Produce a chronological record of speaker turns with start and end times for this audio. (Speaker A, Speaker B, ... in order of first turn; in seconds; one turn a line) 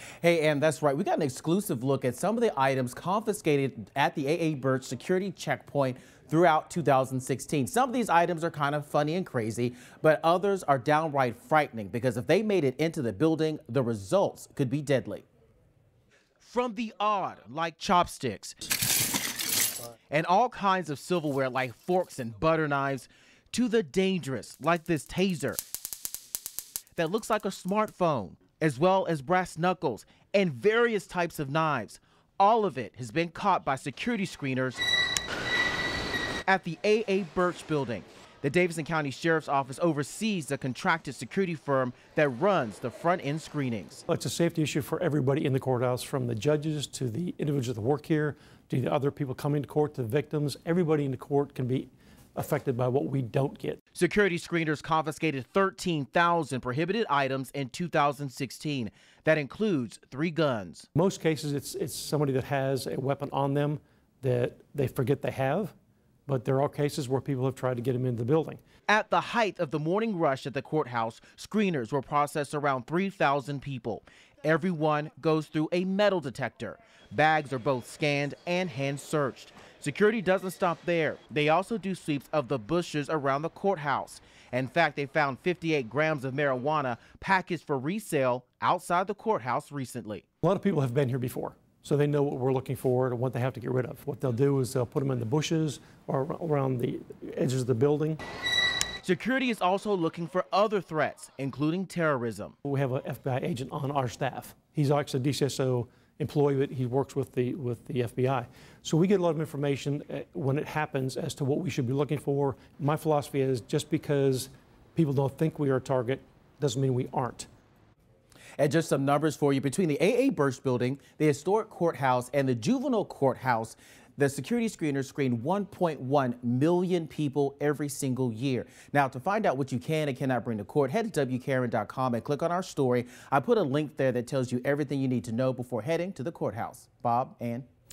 Speaker A: 0.2-15.2
Speaker A: 16.4-18.6
Speaker A: 20.1-25.6
Speaker A: 26.9-34.8
Speaker A: 36.5-44.0
Speaker B: 44.1-53.8
Speaker A: 53.9-60.9
Speaker B: 60.9-65.7
Speaker B: 66.3-68.6
Speaker A: 68.9-90.2
Speaker B: 90.4-98.2
Speaker A: 99.0-102.5
Speaker B: 102.6-117.5
Speaker A: 118.6-137.7